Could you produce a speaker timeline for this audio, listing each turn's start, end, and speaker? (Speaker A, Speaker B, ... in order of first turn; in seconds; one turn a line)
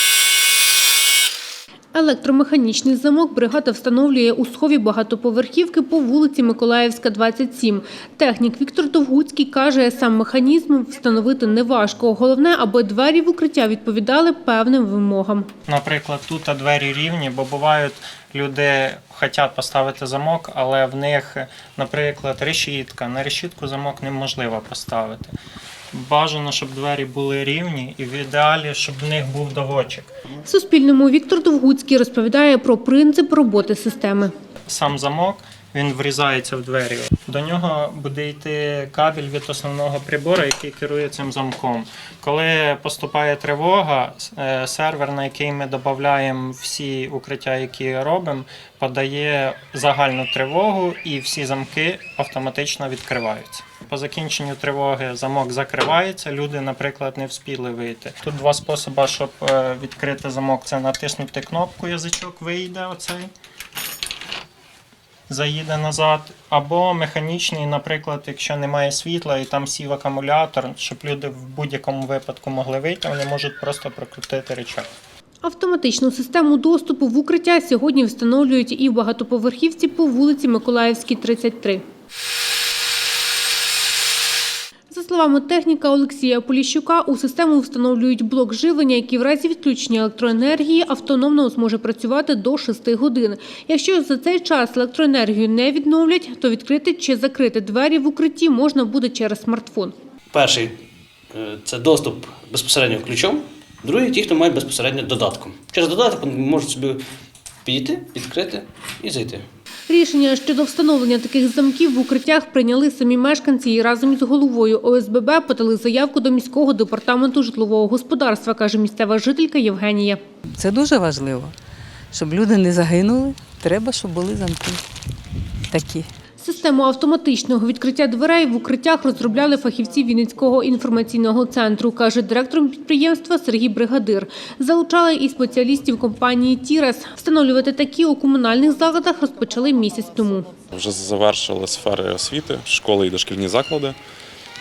Speaker A: 1.9-15.5
Speaker B: 15.7-25.3
Speaker B: 25.9-30.1
Speaker A: 30.4-34.3
Speaker B: 34.7-63.3
Speaker B: 65.3-74.9
Speaker A: 75.4-81.8
Speaker A: 84.9-100.0
Speaker C: 100.3-100.8
Speaker C: 101.3-107.0
Speaker C: 107.7-109.5
Speaker A: 109.9-120.2
Speaker D: 120.5-121.5
Speaker D: 122.1-124.8
Speaker D: 125.7-126.1
Speaker A: 126.4-140.5
Speaker E: 140.7-144.0